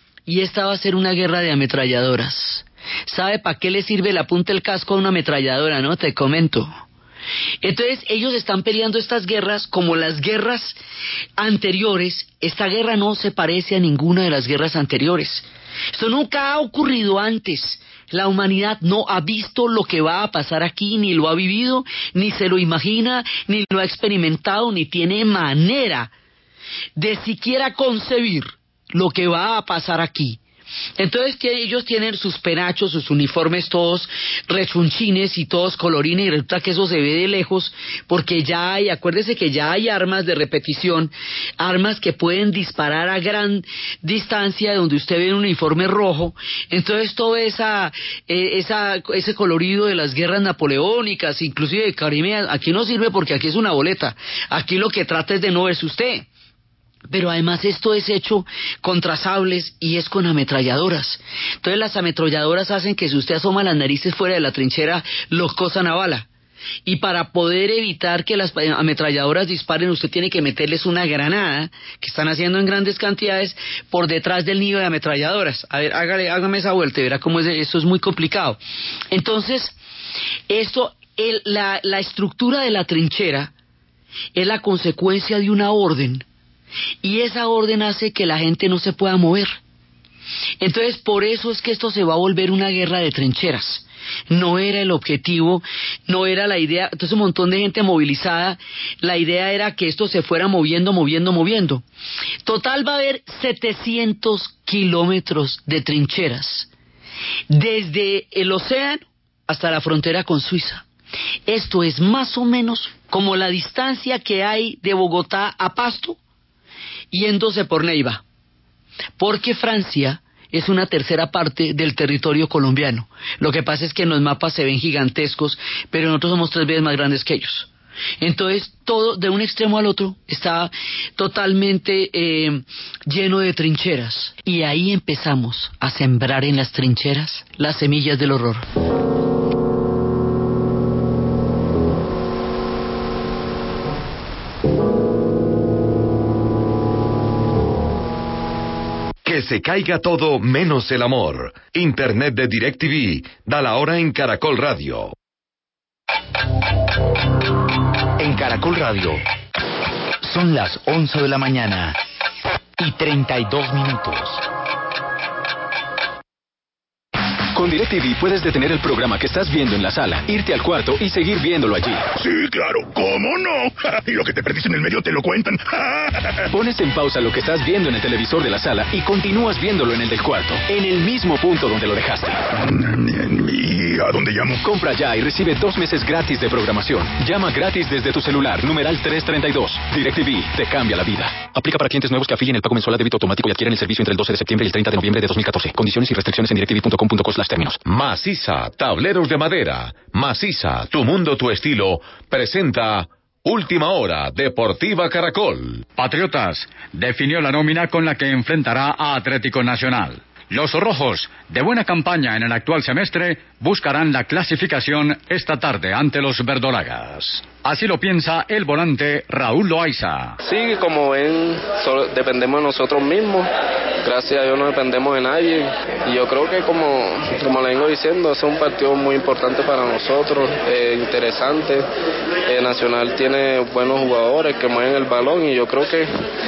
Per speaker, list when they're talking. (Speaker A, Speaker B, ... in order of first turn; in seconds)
Speaker A: 0.3-6.7, 7.6-10.8, 11.4-26.1, 26.9-30.4, 31.0-56.3, 57.1-66.3, 66.8-78.6, 79.1-79.8, 80.5-83.5, 84.3-86.2, 87.0-89.6, 90.6-101.8, 102.4-106.7, 107.5-110.8, 111.5-116.2, 117.1-118.2, 119.2-127.7, 128.2-138.6
Speaker B: 149.2-155.1, 197.8-205.8
Speaker C: 158.2-159.2, 160.2-162.0, 162.8-164.4
Speaker D: 167.5-172.1, 176.5-182.4, 184.6-197.8
Speaker E: 172.2-176.3, 182.7-184.6
Speaker F: 206.0-220.3
Speaker G: 220.4-223.5, 224.0-231.8, 232.4-236.1